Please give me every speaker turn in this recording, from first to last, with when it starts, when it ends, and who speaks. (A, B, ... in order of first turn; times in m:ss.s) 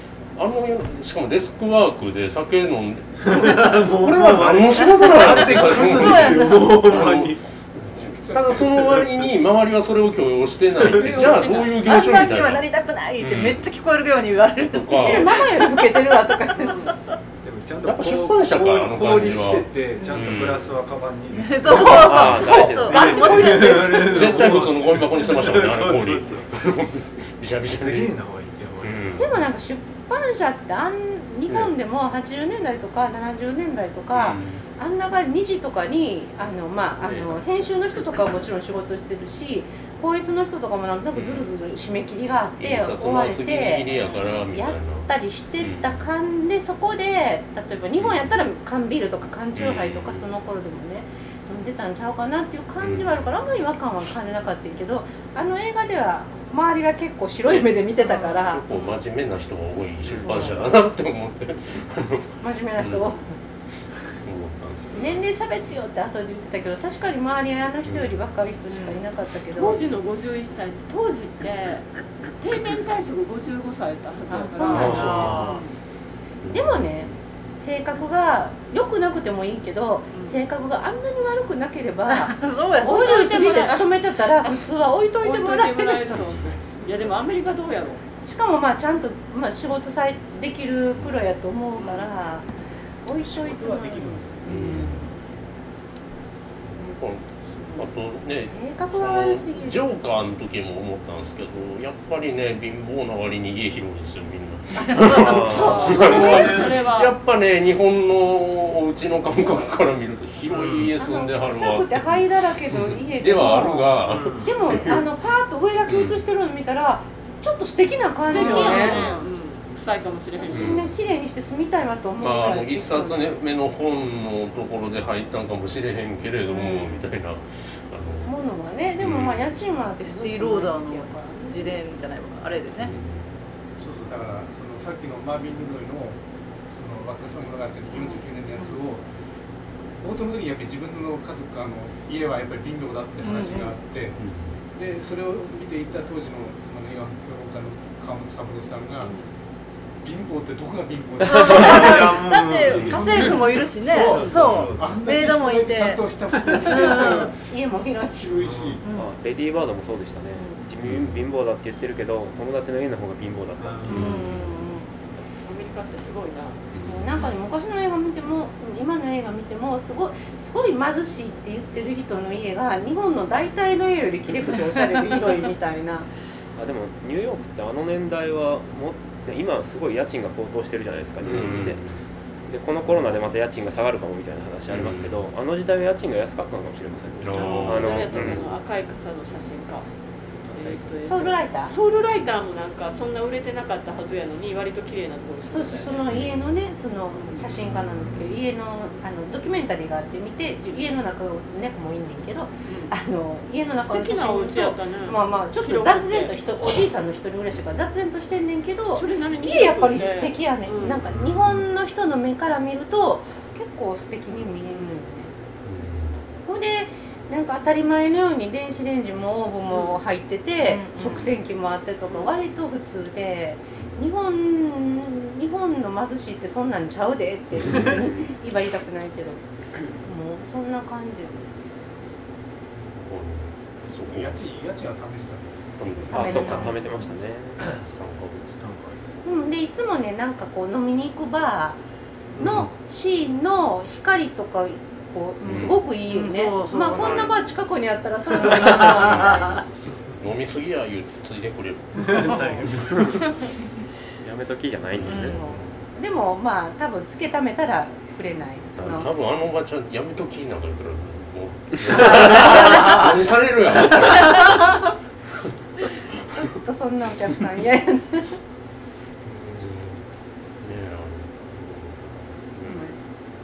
0:00.3-0:13.7 A
0:03.2-0:07.4 B
0:05.2-0:06.7 C
0:07.9-0:08.8 D
0:08.6-0:09.0 B
0:10.8-0:11.8 E
0:11.1-0:16.0 C
0:14.6-0:15.3 A
0:14.9-0:16.9 F
0:16.6-0:16.9 E
0:17.4-0:26.6 B
0:17.8-0:20.8 A
0:21.3-0:24.3 C
0:21.8-0:23.3 G
0:22.4-0:23.8 F
0:23.9-0:28.1 A
0:27.5-0:29.3 B
0:28.8-0:29.4 A
0:29.2-0:58.6 F
0:34.1-0:34.6 A
0:37.0-0:37.4 A
0:41.1-0:41.5 A
0:42.6-0:46.0 A
0:48.0-0:48.4 A
0:49.6-0:50.2 A
0:52.8-0:53.2 A
0:57.5-1:03.1 A
0:58.7-0:59.0 E
1:00.1-1:00.5 F
1:02.4-1:03.3 F
1:04.2-1:05.2 A
1:04.9-1:09.8 F
1:07.8-1:08.2 A
1:09.5-1:15.7 E
1:14.3-1:15.4 F
1:14.7-1:15.6 C
1:14.7-1:15.6 A
1:16.4-1:17.1 A
1:16.5-1:26.2 F
1:22.1-1:23.8 C
1:22.8-1:23.9 E
1:25.2-1:28.0 E
1:26.3-1:27.1 D
1:28.2-1:32.5 F
1:31.8-1:32.1 E
1:33.0-1:35.1 F
1:33.2-1:34.9 D
1:34.4-1:35.0 A
1:36.6-1:52.0 A
1:38.4-1:39.8 F
1:44.8-1:45.4 C
1:45.2-1:46.6 F
1:45.4-1:47.1 E
1:45.9-1:46.8 B
1:50.5-1:50.9 B
1:50.9-1:59.0 F
1:52.7-1:55.0 A
1:54.1-1:54.5 B
1:55.9-1:56.2 A
1:58.3-2:00.8 E
1:58.4-1:58.9 C
1:58.6-1:59.2 A
2:00.4-2:03.2 F
2:00.5-2:00.9 A
2:02.2-2:08.3 A
2:08.2-2:11.8 F
2:09.0-2:09.5 A
2:10.0-2:12.9 C
2:12.8-2:13.3 A
2:13.8-2:19.0 D
2:20.0-2:24.2 D
2:23.2-2:23.8 C
2:24.2-2:24.6 A
2:24.7-2:29.1 D
2:30.0-2:37.3 D
2:31.2-2:36.0 C
2:31.4-2:35.0 B
2:36.4-2:36.9 B
2:36.6-2:37.3 C
2:37.5-2:38.5 F
2:38.2-2:38.8 D
2:38.4-2:38.8 B
2:38.8-2:39.1 C
2:38.9-2:44.2 G
2:40.3-2:40.6 C
2:40.8-2:41.2 A
2:43.6-2:44.6 B
2:43.9-2:44.5 A
2:43.9-2:44.9 C
2:45.4-2:46.6 E
2:46.7-2:47.1 A
2:46.7-2:56.1 F
2:56.6-3:01.9 G
3:01.2-3:02.0 A
3:02.5-3:08.5 G
3:04.7-3:05.2 A
3:07.2-3:08.4 A
3:07.3-3:09.9 E
3:10.5-3:10.9 G
3:10.5-3:16.0 E
3:11.0-3:11.7 F
3:15.4-3:35.3 F
3:16.1-3:16.5 A
3:22.7-3:22.9 E
3:23.9-3:26.3 E
3:29.0-3:31.0 E
3:31.1-3:31.5 B
3:34.7-3:35.3 E
3:35.6-3:36.2 A
3:36.5-3:49.4 F
3:39.7-3:40.0 E
3:40.6-3:41.2 C
3:42.1-3:42.3 E
3:50.0-3:51.4 F
3:53.0-3:54.4 A
3:54.0-3:56.3 D
3:55.8-3:56.8 A
3:56.1-3:56.8 F
3:56.1-3:57.7 G
3:57.6-3:58.6 A
3:58.6-3:59.2 B
3:59.2-4:01.8 F
4:02.3-4:02.7 B
4:02.4-4:09.6 F
4:05.5-4:05.8 A
4:05.5-4:07.3 C
4:06.9-4:07.3 A
4:08.8-4:09.6 A
4:10.2-4:12.6 A
4:12.0-4:13.2 B
4:14.2-4:15.4 G
4:14.9-4:15.7 A
4:15.1-4:15.4 C
4:15.3-4:19.1 F
4:18.8-4:24.9 A
4:22.2-4:22.6 F
4:26.3-4:28.4 F
4:29.2-4:30.0 A
4:30.6-4:32.9 A